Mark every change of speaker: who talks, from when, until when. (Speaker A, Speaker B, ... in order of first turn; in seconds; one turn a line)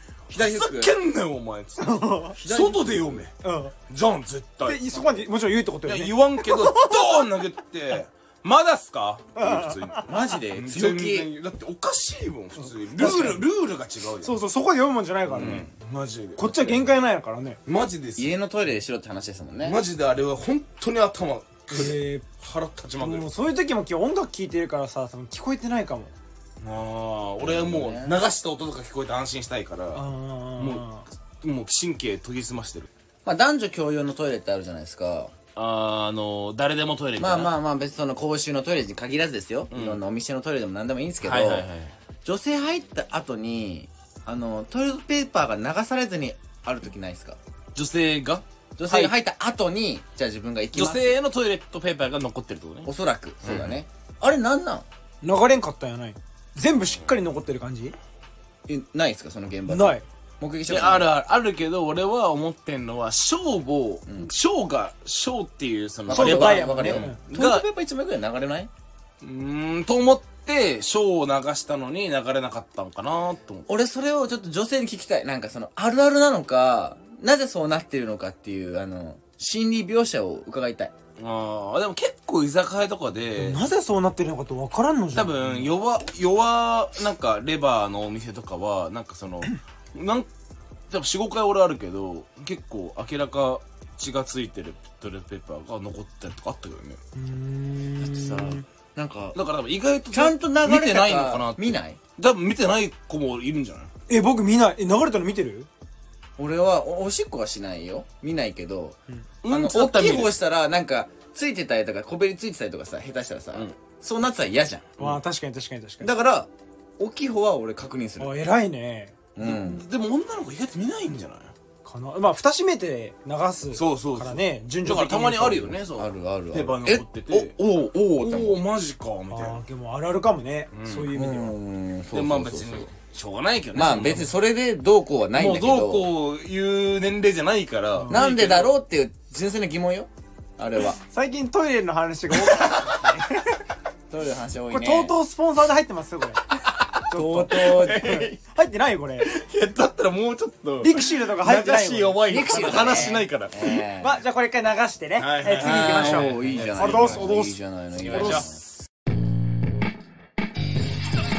Speaker A: 0.3-0.9
Speaker B: 0.3-3.3
Speaker C: 1.8-2.4
Speaker A: 2.4-3.2
Speaker C: 3.4-3.7
Speaker B: 3.9-5.2
Speaker C: 4.6-7.2
Speaker B: 5.8-14.4
Speaker C: 9.3-10.0
Speaker A: 10.1-11.3
Speaker C: 12.6-13.5
Speaker C: 14.2-15.6
Speaker B: 15.3-16.8
Speaker A: 15.3-15.7
Speaker C: 16.4-17.6
Speaker B: 17.6-18.3
Speaker A: 18.1-19.8
Speaker B: 19.6-23.3
Speaker C: 21.7-22.3
Speaker C: 22.9-26.1
Speaker B: 26.6-30.0
Speaker A: 27.4-28.1
Speaker C: 29.9-31.0
Speaker B: 30.6-30.8
Speaker B: 31.4-32.9
Speaker A: 33.2-35.3
Speaker B: 35.5-37.5
Speaker A: 37.2-41.7
Speaker B: 39.7-40.0
Speaker B: 41.2-42.0
Speaker A: 42.2-47.4
Speaker B: 47.7-49.1
Speaker A: 48.8-51.1
Speaker B: 50.7-52.9
Speaker A: 52.8-54.9
Speaker B: 53.4-53.8
Speaker C: 55.2-58.0
Speaker A: 58.7-61.1
Speaker C: 59.7-60.0
Speaker B: 60.7-67.6
Speaker A: 66.1-68.7
Speaker C: 66.1-67.2
Speaker B: 69.2-73.7
Speaker A: 73.7-80.9
Speaker B: 81.2-83.6
Speaker C: 83.4-85.7
Speaker B: 85.1-90.3
Speaker B: 90.9-97.0
Speaker C: 97.2-98.6
Speaker A: 98.0-99.4
Speaker B: 99.3-103.9
Speaker A: 100.1-102.0
Speaker C: 104.1-105.7
Speaker A: 106.4-114.9
Speaker B: 109.4-110.3
Speaker C: 115.0-116.1
Speaker A: 116.0-118.3
Speaker C: 118.2-119.1
Speaker A: 119.3-119.8
Speaker B: 119.4-121.5
Speaker C: 121.8-125.8
Speaker B: 123.7-127.6
Speaker A: 125.9-128.6
Speaker B: 128.2-129.6
Speaker C: 129.3-131.5
Speaker B: 130.7-131.1
Speaker A: 131.1-132.9
Speaker B: 132.1-134.3
Speaker A: 133.7-136.1
Speaker B: 135.3-138.8
Speaker A: 138.1-141.0
Speaker C: 141.0-143.6
Speaker B: 142.3-143.1
Speaker A: 144.1-145.1
Speaker C: 144.7-149.3
Speaker B: 146.7-148.3
Speaker A: 147.1-148.3
Speaker B: 149.2-153.8
Speaker C: 150.8-153.1
Speaker A: 152.3-154.2
Speaker C: 154.0-157.6
Speaker B: 155.2-157.2
Speaker A: 155.6-158.6
Speaker B: 157.9-158.5
Speaker C: 158.1-158.4